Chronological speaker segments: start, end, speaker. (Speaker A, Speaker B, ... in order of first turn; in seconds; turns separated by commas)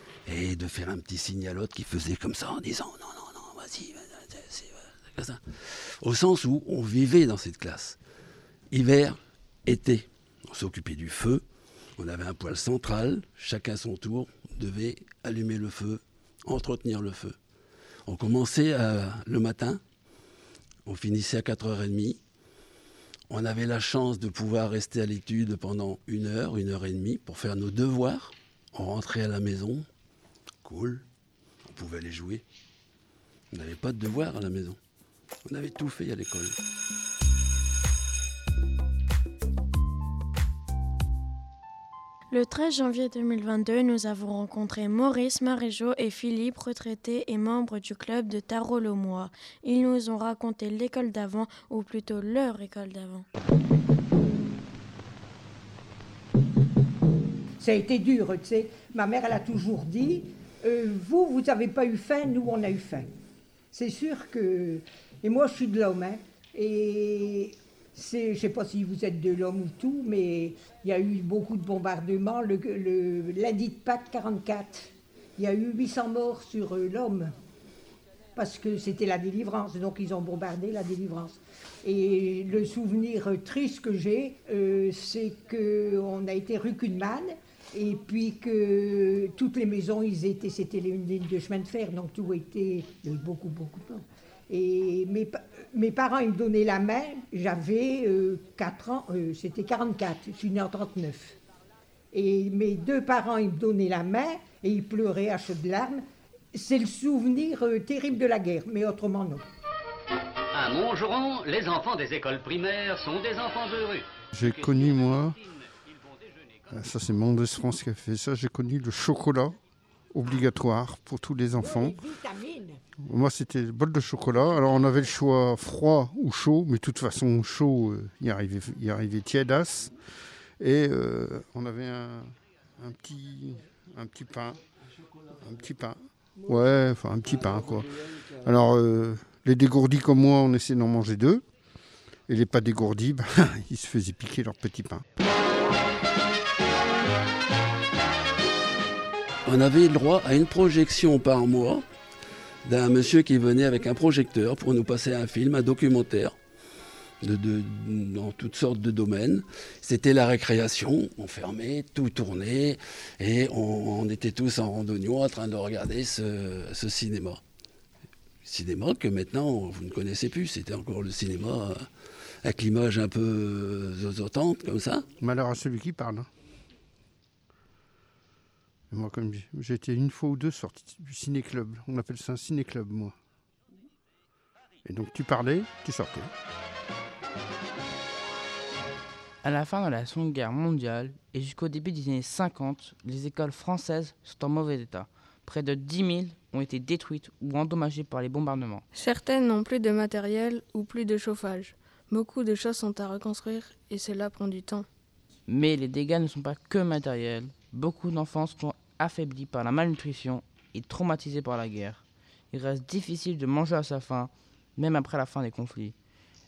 Speaker A: 0.2-8.0, Speaker A: 8.7-11.4, Speaker A: 12.0-17.4, Speaker A: 18.1-19.8, Speaker A: 20.9-22.2, Speaker A: 23.3-29.9, Speaker A: 30.6-31.0, Speaker A: 31.6-32.4, Speaker A: 33.5-34.8, Speaker A: 35.5-36.6, Speaker B: 42.3-53.2, Speaker C: 57.6-63.1, Speaker C: 63.7-77.3, Speaker C: 78.3-101.4, Speaker C: 102.1-109.4, Speaker D: 110.6-114.0, Speaker E: 114.3-115.4, Speaker E: 116.7-119.6, Speaker E: 120.1-122.0, Speaker C: 121.6-122.8, Speaker E: 123.0-129.9, Speaker E: 130.6-134.6, Speaker E: 135.3-141.4, Speaker E: 142.3-145.0, Speaker A: 149.4-151.8, Speaker A: 152.6-156.3, Speaker A: 157.2-167.4, Speaker A: 168.4-171.9, Speaker A: 172.4-175.0, Speaker E: 175.2-176.3, Speaker E: 178.9-183.1, Speaker E: 184.8-186.3, Speaker F: 189.4-198.8, Speaker G: 202.1-204.7, Speaker F: 205.5-215.9